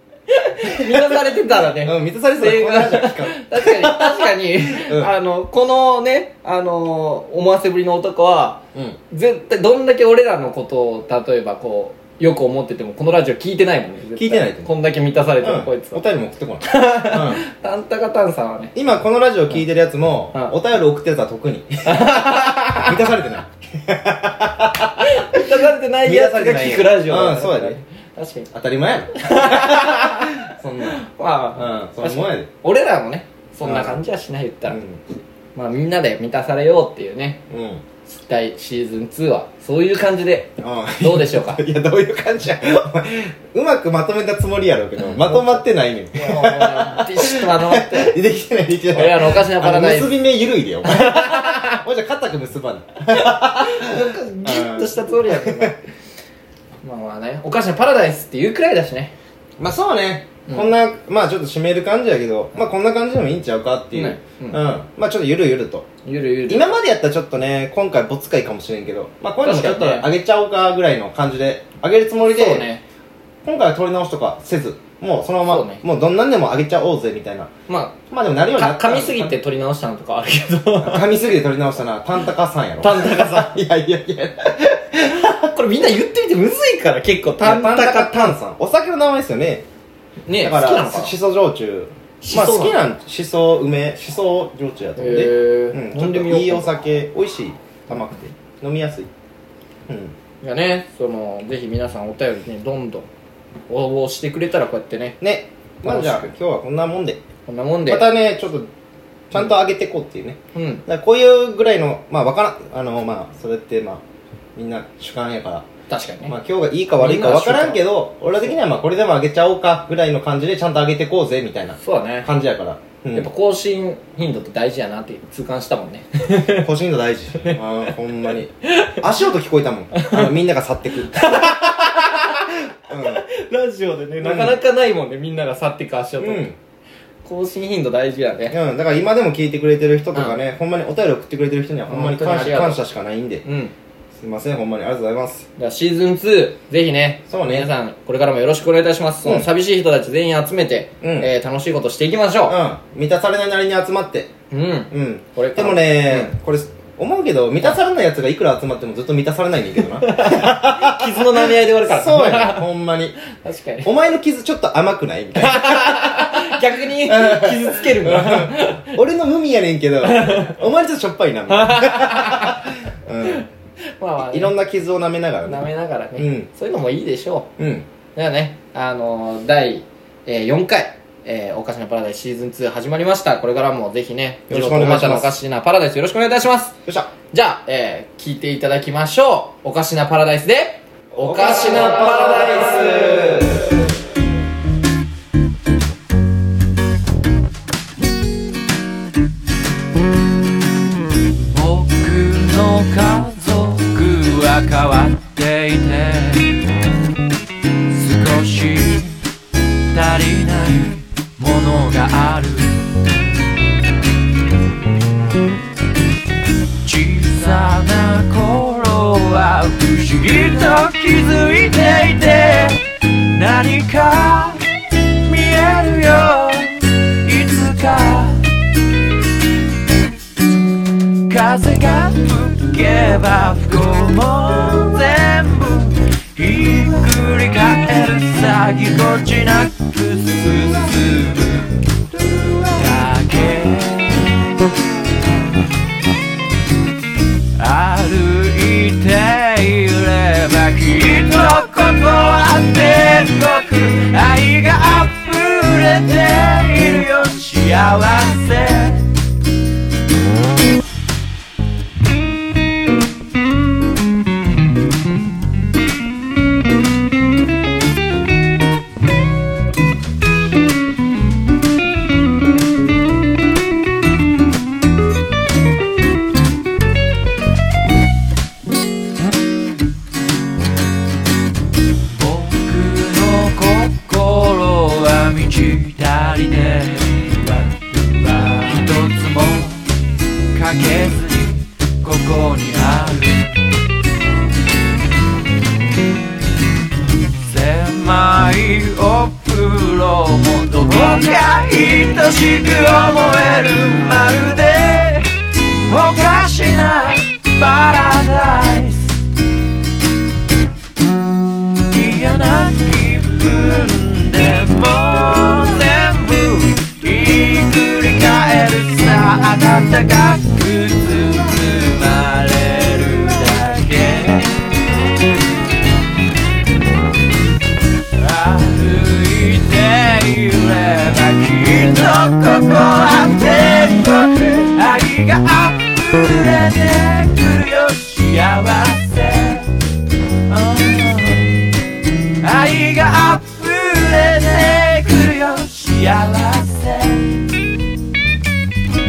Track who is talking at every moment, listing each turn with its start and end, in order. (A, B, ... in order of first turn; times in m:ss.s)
0:00.3-0:16.0 A
0:00.6-0:05.1 B
0:14.2-0:14.7 B
0:15.4-0:17.4 B
0:16.6-0:18.7 A
0:18.7-0:27.8 B
0:21.8-0:23.0 A
0:25.0-0:28.5 A
0:28.5-0:31.0 B
0:29.2-0:34.8 A
0:31.5-0:32.5 B
0:33.6-0:34.0 B
0:34.7-0:35.0 B
0:35.5-0:37.4 A
0:37.5-0:37.8 B
0:38.0-0:41.6 A
0:40.6-0:55.8 B
0:45.1-0:48.2 A
0:48.9-0:50.1 A
0:50.8-0:51.8 A
0:53.1-0:55.8 A
0:56.8-0:59.1 A
0:59.6-1:05.9 B
1:03.9-1:04.6 A
1:06.0-1:06.7 A
1:06.5-1:12.7 B
1:09.4-1:10.1 A
1:12.2-1:12.8 A
1:13.4-1:17.5 B
1:15.4-1:15.8 A
1:17.7-1:18.0 A
1:18.1-1:19.4 B
1:18.5-1:21.1 A
1:20.8-1:25.5 B
1:22.8-1:23.6 A
1:25.4-1:28.4 A
1:27.4-1:29.6 B
1:30.3-1:31.1 A
1:30.4-1:39.1 B
1:32.2-1:32.8 A
1:35.0-1:36.8 A
1:39.9-1:40.1 B
1:40.4-1:43.1 A
1:43.7-1:45.2 A
1:45.2-1:47.2 B
1:45.8-1:46.3 A
1:47.5-1:48.1 A
1:47.9-1:48.7 B
1:49.3-1:54.0 B
1:50.5-1:50.8 A
1:54.6-1:55.7 B
1:55.9-1:56.3 A
1:56.2-2:03.3 B
1:57.0-1:57.9 A
2:01.8-2:02.3 A
2:03.1-2:06.7 A
2:06.4-2:11.6 B
2:09.9-2:10.3 A
2:11.1-2:16.5 A
2:12.8-2:13.2 B
2:14.2-2:14.6 B
2:16.2-2:16.6 B
2:17.2-2:18.6 A
2:18.5-2:23.4 B
2:21.9-2:22.8 A
2:23.4-2:23.7 A
2:24.2-2:25.5 B
2:25.6-2:32.6 A
2:27.3-2:27.7 B
2:29.2-2:29.5 B
2:31.0-2:31.3 B
2:32.5-2:34.3 B
2:34.5-2:36.3 A
2:34.9-2:43.2 B
2:40.0-2:42.6 A
2:43.3-2:43.9 A
2:43.8-2:53.4 B
2:45.4-2:49.0 A
2:50.0-2:50.6 A
2:51.5-2:52.7 A
2:54.0-2:54.5 A
2:54.2-2:56.5 B
2:55.4-2:57.5 A
2:57.6-2:57.9 B
2:58.1-3:06.8 A
3:04.5-3:05.3 B
3:06.8-3:07.1 B
3:07.3-3:13.4 A
3:11.1-3:13.8 B
3:21.5-3:26.7 C
3:27.9-3:29.2 C
3:29.9-3:32.8 C
3:36.8-3:48.5 C
3:51.3-4:01.8 C
4:02.6-4:04.5 C
4:07.6-4:19.1 C
4:42.1-4:49.9 C
4:50.5-4:53.6 C
4:57.4-5:05.3 C
5:05.8-5:09.2 C
5:11.9-5:24.9 C
5:28.1-5:39.7 C
5:40.5-5:41.6 C
5:42.4-5:47.4 C